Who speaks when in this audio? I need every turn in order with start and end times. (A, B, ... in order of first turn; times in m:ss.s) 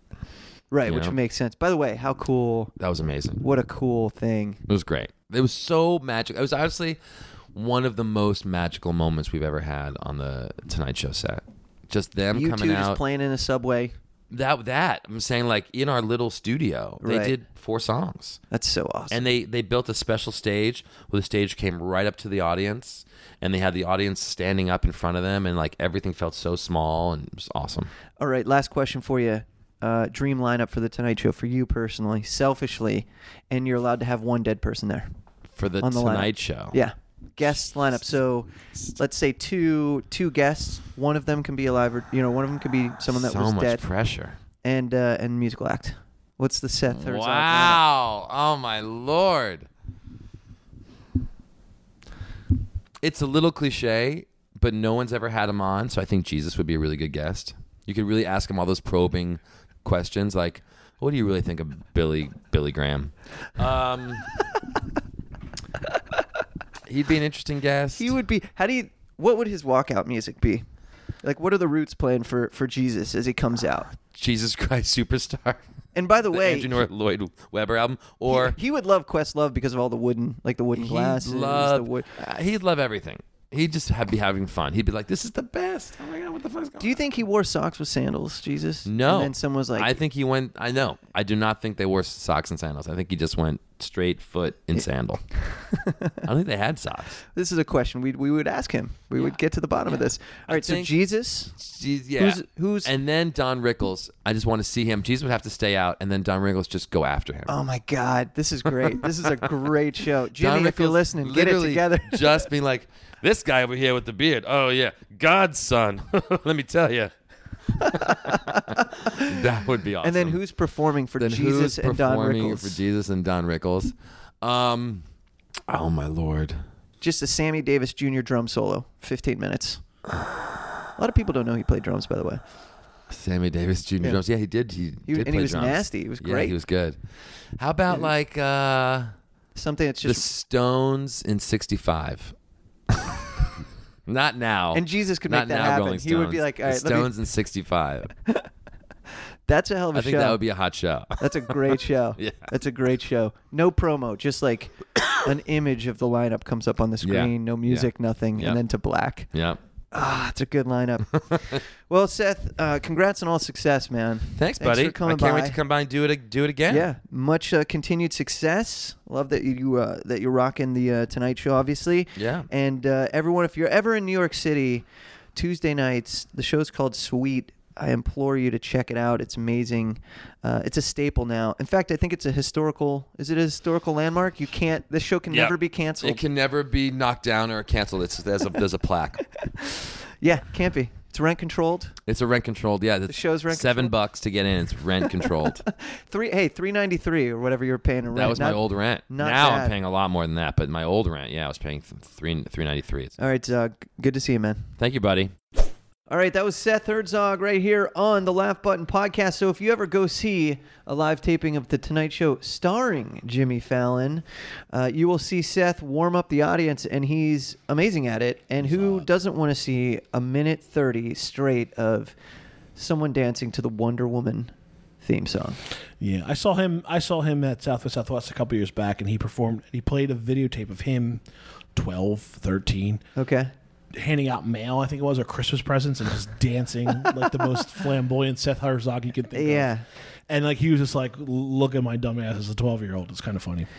0:00.7-0:02.7 A
0:00.9-0:01.2 B
0:02.8-0:03.4 B
0:03.4-0:04.6 A
0:04.7-0:07.0 B
0:07.5-0:13.0 B
0:12.3-0:13.9 A
0:14.3-0:18.4 B
0:17.0-0:17.3 A
0:18.5-0:19.2 A
0:19.1-0:27.9 B
0:28.2-0:35.1 A
0:35.5-0:36.8 B
0:35.8-0:43.8 A
0:43.1-0:44.4 B
0:44.6-0:47.8 A
0:46.9-0:49.7 B
0:53.0-1:04.4 B
1:06.9-1:08.2 B
1:08.0-1:10.6 A
1:11.2-1:13.9 A
1:14.1-1:15.6 B
1:16.0-1:16.8 A
1:16.3-1:18.6 B
1:18.3-1:22.1 A
1:20.8-1:27.0 B
1:26.8-1:30.0 A
1:28.8-1:35.3 B
1:35.7-1:36.2 A
1:36.3-1:37.2 B
1:37.3-1:41.6 A
1:40.5-1:41.0 B
1:41.6-1:47.6 B
1:42.2-1:42.9 A
1:47.5-1:52.5 A
1:48.9-1:49.5 B
1:50.3-1:57.1 B
1:57.7-2:00.4 B
1:57.8-1:59.4 A
2:00.0-2:02.8 A
2:01.2-2:05.1 B
2:05.7-2:06.6 B
2:07.0-2:09.8 A
2:11.0-2:12.4 A
2:13.1-2:17.0 B
2:15.1-2:16.5 A
2:17.6-2:19.1 B
2:19.6-2:20.3 A
2:20.0-2:22.3 B
2:24.1-2:28.1 B
2:24.7-2:27.1 A
2:29.5-2:30.4 A
2:29.9-2:31.5 B
2:31.2-2:39.3 A
2:32.2-2:32.5 B
2:37.0-2:38.6 B
2:39.3-2:39.6 B
2:39.9-2:45.6 A
2:41.2-2:41.6 B
2:44.4-2:46.9 B
2:46.7-3:06.2 A
2:52.2-2:52.5 B
3:05.3-3:09.3 B
3:09.6-3:12.0 A
3:12.1-3:15.7 B
3:13.1-3:14.0 A
3:15.2-3:19.8 A
3:18.1-3:23.2 B
3:23.2-3:24.7 A
3:24.8-3:25.3 B
3:26.1-3:42.1 A
3:38.6-3:39.1 B
3:42.8-3:45.6 A
3:46.0-3:51.2 C
3:51.8-3:53.0 C
3:53.2-3:53.5 A
3:53.9-3:59.7 C
3:59.3-3:59.8 A
4:00.3-4:03.7 C